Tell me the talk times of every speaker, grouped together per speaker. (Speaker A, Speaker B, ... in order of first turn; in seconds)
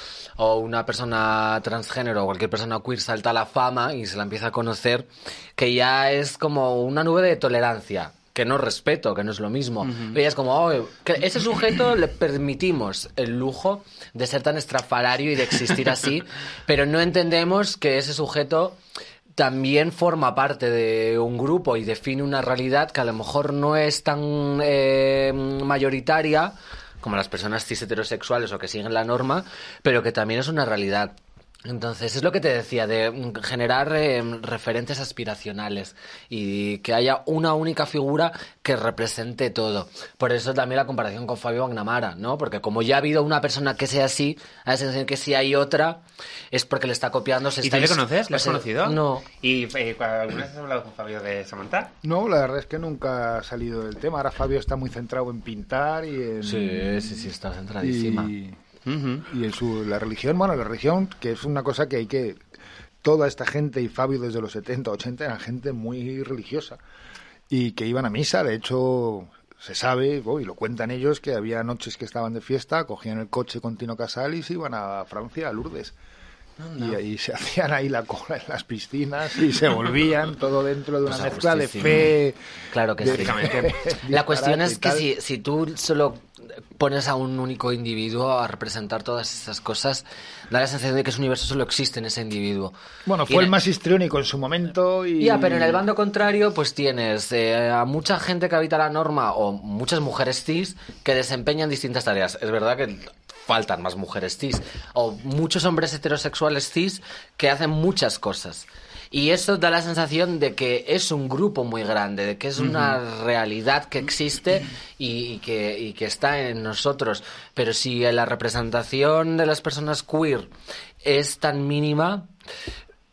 Speaker A: 0.4-18.8, 19.4-46.0, 46.5-49.3, 56.4-58.3, 81.1-82.1, 82.7-92.7, 95.2-120.5, 121.0-122.3
Speaker B: 47.6-51.9, 58.9-59.2, 76.6-77.0, 83.1-83.8, 112.6-113.0
Speaker C: 52.0-57.3, 57.8-58.6, 59.3-62.4, 63.0-66.8, 67.5-76.0, 76.8-82.4, 83.0-85.1, 93.1-95.8